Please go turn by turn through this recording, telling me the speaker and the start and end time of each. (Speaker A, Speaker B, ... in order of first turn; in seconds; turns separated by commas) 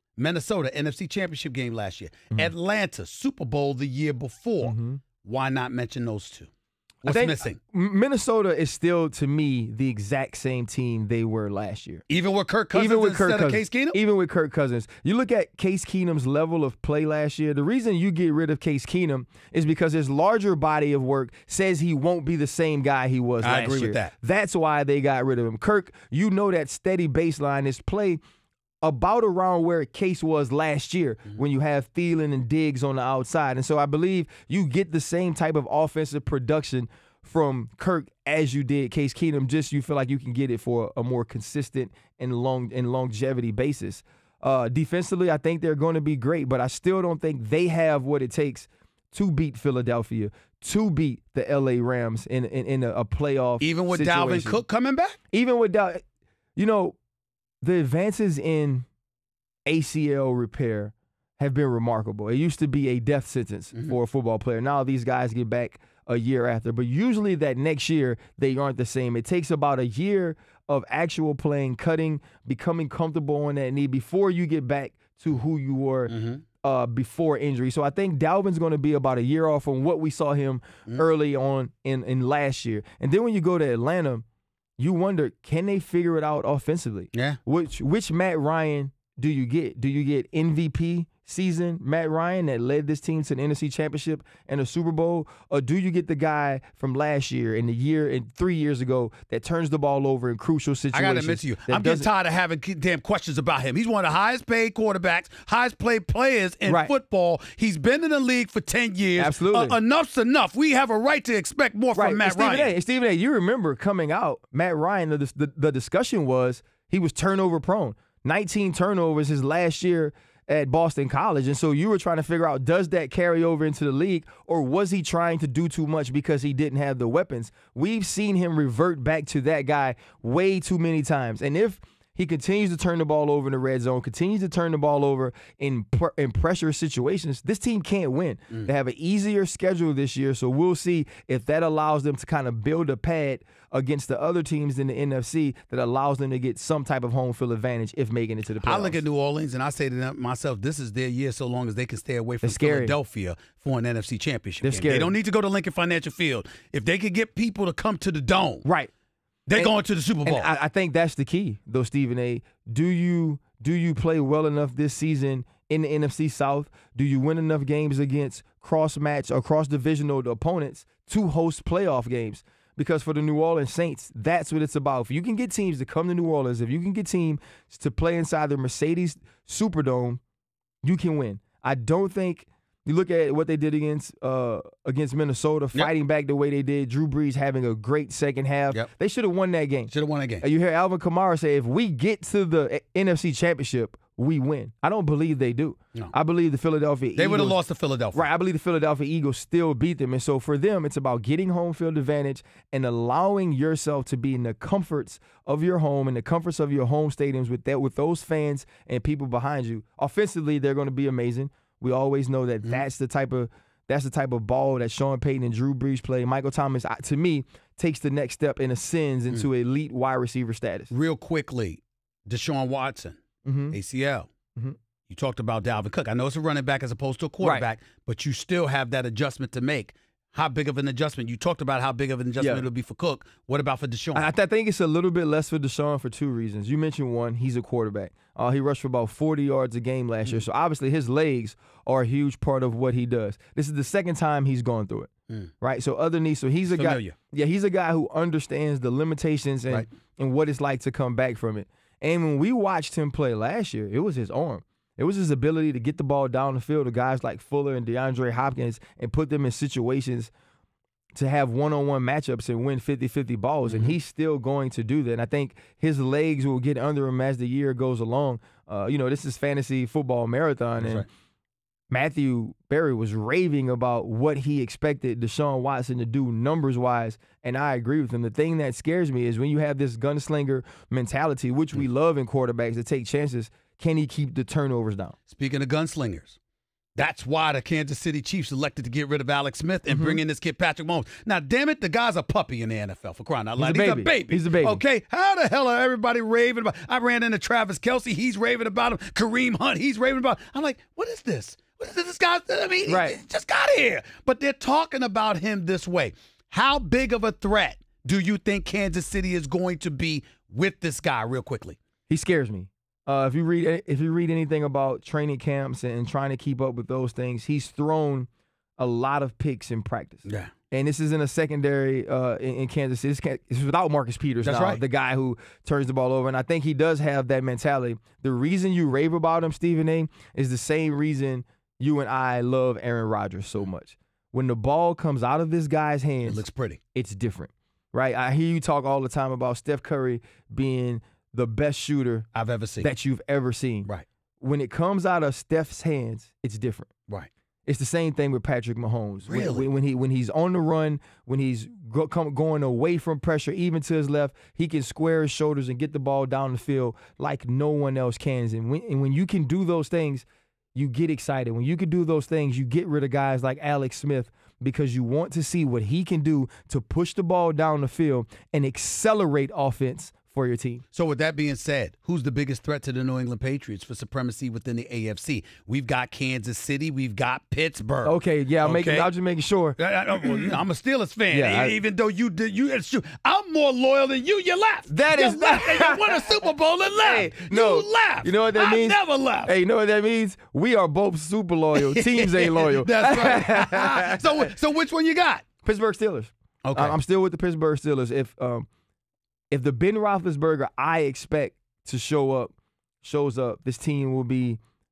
Speaker A: 0.2-6.5, Speaker B: 4.6-5.0, Speaker A: 7.0-7.6, Speaker B: 7.0-12.0, Speaker A: 12.1-14.0, Speaker B: 12.7-28.2, Speaker A: 23.4-24.1, Speaker B: 28.8-54.6, Speaker A: 53.6-55.2, Speaker B: 55.3-56.0, Speaker B: 56.5-57.0, Speaker B: 57.6-58.9, Speaker B: 59.6-84.2, Speaker A: 76.1-76.4, Speaker B: 84.8-102.1, Speaker A: 87.1-87.4, Speaker A: 100.9-112.7, Speaker B: 106.7-106.9, Speaker B: 109.2-109.8, Speaker B: 111.9-149.0, Speaker A: 148.6-158.6, Speaker B: 152.4-153.0, Speaker B: 154.6-155.1, Speaker B: 158.6-158.9, Speaker A: 159.5-160.5, Speaker B: 159.6-180.2, Speaker B: 180.8-197.6, Speaker A: 189.9-190.5, Speaker A: 197.2-198.3, Speaker B: 198.1-220.9, Speaker A: 220.9-223.2, Speaker B: 223.4-223.8, Speaker A: 223.7-224.3, Speaker A: 225.1-234.3, Speaker B: 227.4-227.7, Speaker B: 232.4-232.7, Speaker B: 234.1-245.1, Speaker B: 245.6-260.3, Speaker A: 246.7-247.1, Speaker B: 261.1-271.1, Speaker A: 263.7-263.9, Speaker A: 270.8-271.1, Speaker B: 271.9-285.1, Speaker A: 285.3-286.4, Speaker A: 286.9-311.8, Speaker B: 289.9-290.2, Speaker B: 293.6-294.8, Speaker B: 302.9-303.2, Speaker B: 312.1-336.4, Speaker A: 320.2-320.5, Speaker A: 324.4-324.8, Speaker A: 336.2-336.8, Speaker B: 336.9-342.3, Speaker A: 342.3-342.9, Speaker B: 342.8-343.9, Speaker B: 344.4-346.9, Speaker B: 347.6-370.8, Speaker A: 349.3-349.7, Speaker A: 370.9-379.1, Speaker B: 378.0-380.6, Speaker A: 379.8-389.5, Speaker B: 381.3-381.8, Speaker B: 384.9-386.4, Speaker B: 387.0-394.5, Speaker A: 391.7-395.4, Speaker B: 395.6-398.7, Speaker A: 396.6-397.0, Speaker B: 399.5-404.6